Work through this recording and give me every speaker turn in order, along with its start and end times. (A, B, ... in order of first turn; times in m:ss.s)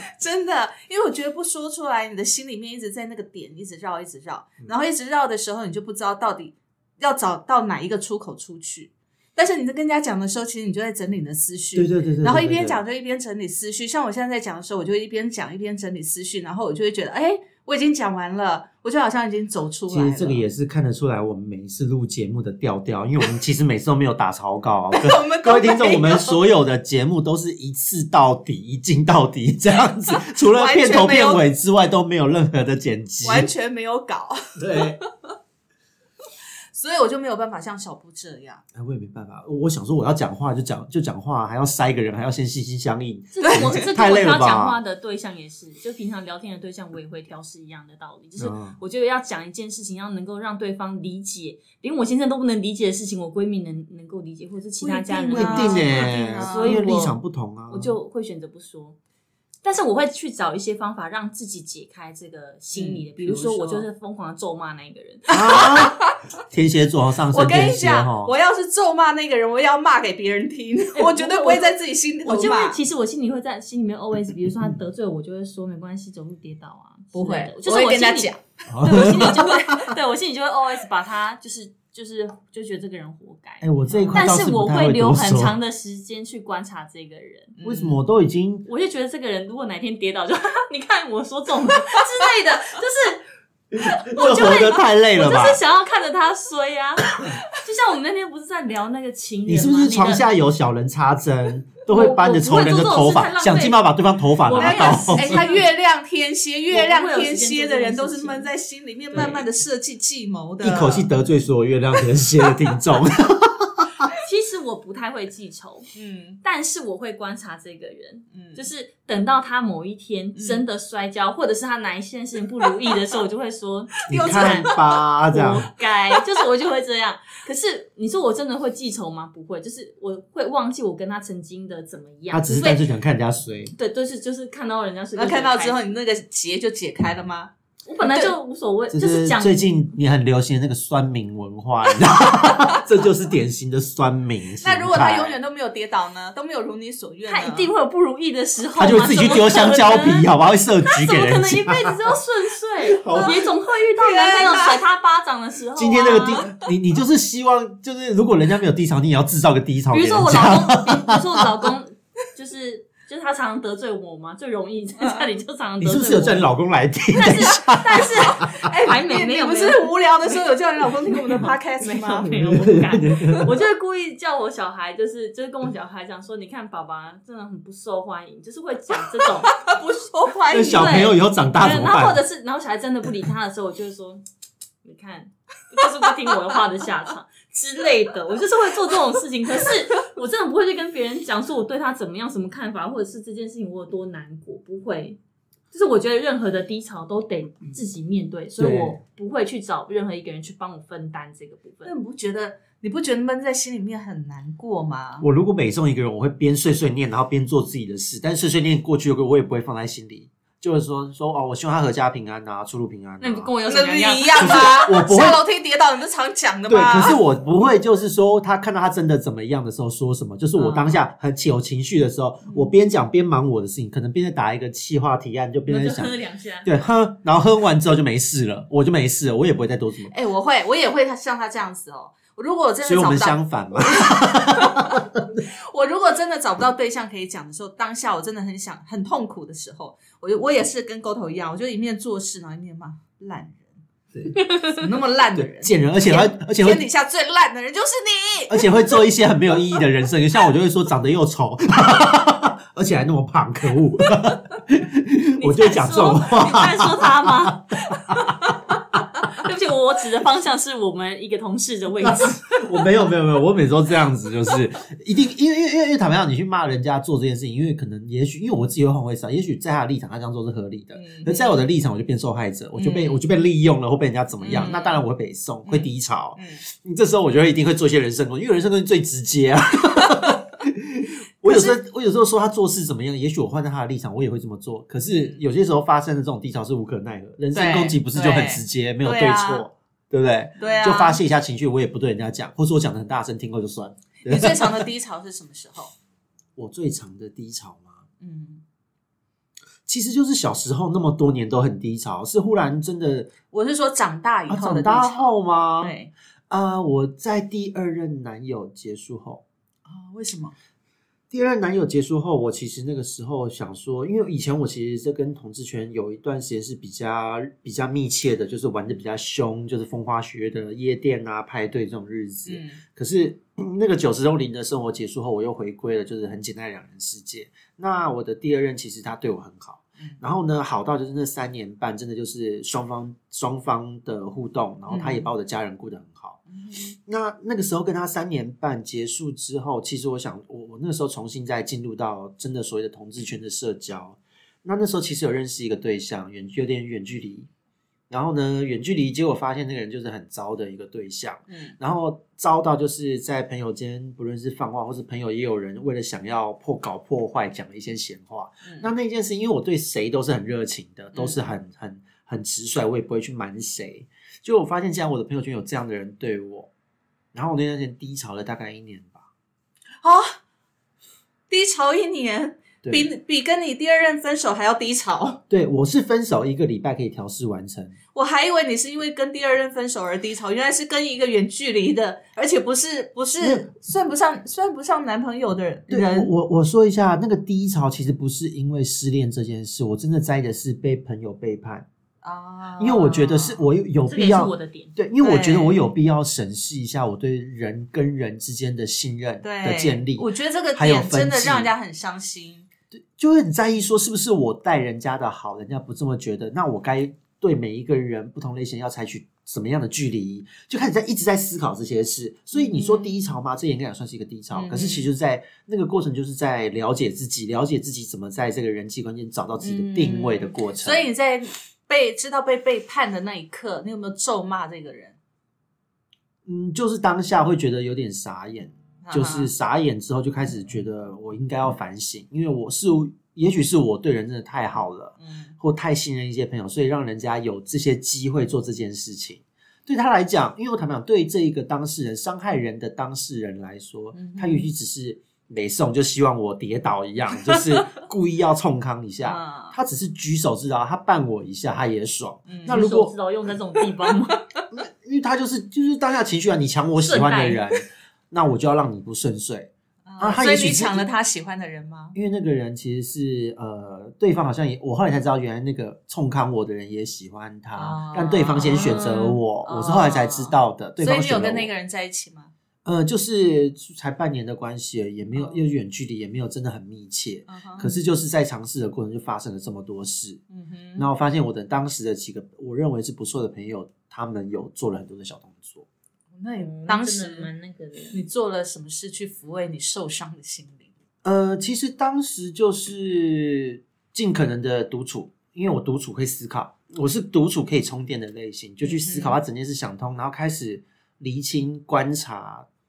0:00.2-0:20.4 A
0:11.8-0:12.8 B
0:19.9-0:33.5 B
0:24.9-0:26.4 A
0:30.1-0:31.4 A
0:33.2-0:35.1 A
0:34.6-0:35.0 B
0:36.7-0:38.6 A
0:38.7-0:44.8 B
0:43.3-0:57.2 C
0:43.4-0:43.9 A
0:48.4-0:48.8 B
0:54.8-0:56.9 A
0:55.3-0:58.0 B
0:57.7-0:59.0 C
0:59.6-1:05.7 C
1:02.7-1:03.8 A
1:05.3-1:08.3 B
1:05.3-1:06.2 A
1:07.3-1:12.8 A
1:11.0-1:27.6 C
1:17.1-1:18.4 A
1:18.7-1:19.9 B
1:19.0-1:19.5 A
1:23.6-1:25.6 B
1:23.9-1:24.2 A
1:27.6-1:28.0 A
1:27.6-1:28.7 B
1:28.7-1:33.2 C
1:33.8-1:35.6 B
1:34.0-1:40.2 C
1:39.5-1:45.5 B
1:41.9-1:45.7 C
1:44.6-1:51.1 A
1:46.7-1:48.5 C
1:49.1-1:49.4 C
1:50.6-1:53.9 B
1:54.2-1:55.9 C
1:56.0-1:56.4 A
1:56.4-2:12.8 C
1:58.3-1:58.6 A
2:00.4-2:00.6 A
2:04.1-2:04.8 A
2:04.1-2:05.7 B
2:12.3-2:13.7 B
2:13.8-2:15.9 C
2:15.2-2:18.3 A
2:17.9-2:19.8 C
2:18.9-2:25.4 B
2:24.6-2:27.7 A
2:27.3-2:30.3 C
2:28.8-2:32.1 B
2:30.9-2:36.5 C
2:32.8-2:33.4 B
2:33.1-2:33.4 A
2:34.0-2:34.8 A
2:35.8-2:41.7 B
2:39.9-2:46.5 C
2:45.8-2:48.5 B
2:47.1-2:50.0 C
2:47.9-2:52.4 A
2:51.1-2:59.8 C
2:52.3-2:53.6 B
2:59.5-3:01.1 A
3:00.5-3:02.2 B
3:00.7-3:04.2 C
3:04.8-3:15.2 C
3:15.7-3:21.9 C
3:18.6-3:19.0 B
3:21.8-3:25.3 A
3:25.2-3:33.5 B
3:33.2-3:34.8 C
3:33.7-3:37.2 A
3:34.4-3:35.4 B
3:36.7-3:50.1 B
3:40.6-3:41.0 A
3:42.4-3:42.7 A
3:45.7-3:46.7 C
3:50.1-4:03.8 A
3:52.8-3:55.4 B
4:04.1-4:04.4 B
4:04.4-4:04.8 C
4:04.6-4:09.0 A
4:05.4-4:06.9 B
4:08.5-4:18.5 B
4:15.4-4:17.8 C
4:19.3-4:22.9 C
4:22.0-4:54.8 B
4:31.0-4:31.6 A
4:32.8-4:33.2 A
4:34.4-4:34.9 A
4:34.6-4:34.9 C
4:35.6-4:36.6 A
4:40.0-4:40.3 A
4:41.5-4:41.8 A
4:45.1-4:45.4 A
4:47.5-4:49.7 A
4:50.6-4:51.2 A
4:54.2-4:55.9 A
4:56.6-4:58.0 B
4:58.2-4:58.6 A
4:59.9-5:03.3 B
5:03.5-5:06.1 A
5:04.5-5:05.9 B
5:06.5-5:09.4 B
5:09.9-5:10.6 A
5:11.3-5:36.4 B
5:22.5-5:22.8 A
5:34.9-5:35.3 A
5:36.5-5:37.0 A
5:37.1-5:47.5 B
5:48.1-6:06.7 B
5:51.5-5:51.8 A
5:58.6-5:58.9 A
6:01.1-6:01.4 A
6:07.3-6:09.3 B
6:10.0-6:10.4 A
6:11.5-6:15.4 A
6:12.8-6:13.1 B
6:15.5-6:18.0 B
6:18.2-6:26.3 A
6:23.4-6:23.7 B
6:25.9-6:31.9 B
6:32.2-6:33.7 A
6:32.8-6:41.7 B
6:34.1-6:35.0 C
6:35.2-6:35.8 A
6:39.4-6:42.7 A
6:42.9-7:01.0 B
6:52.5-6:53.1 A
6:54.5-6:55.1 A
6:59.6-7:05.2 A
7:06.5-7:33.1 B
7:09.0-7:09.5 A
7:15.2-7:15.5 A
7:24.1-7:24.7 A
7:27.4-7:28.0 A
7:29.2-7:29.8 A
7:32.5-7:32.8 A
7:32.7-7:34.4 C
7:34.7-7:41.0 B
7:37.0-7:37.6 C
7:40.1-7:42.2 A
7:42.2-7:51.7 B
7:47.8-7:52.5 A
7:52.8-8:00.4 B
7:55.4-7:55.7 A
7:57.5-7:57.9 A
8:00.5-8:01.1 A
8:01.0-8:05.9 B
8:06.4-8:07.5 A
8:06.6-8:08.2 C
8:08.1-8:10.9 A
8:11.2-8:22.7 B
8:18.8-8:19.4 A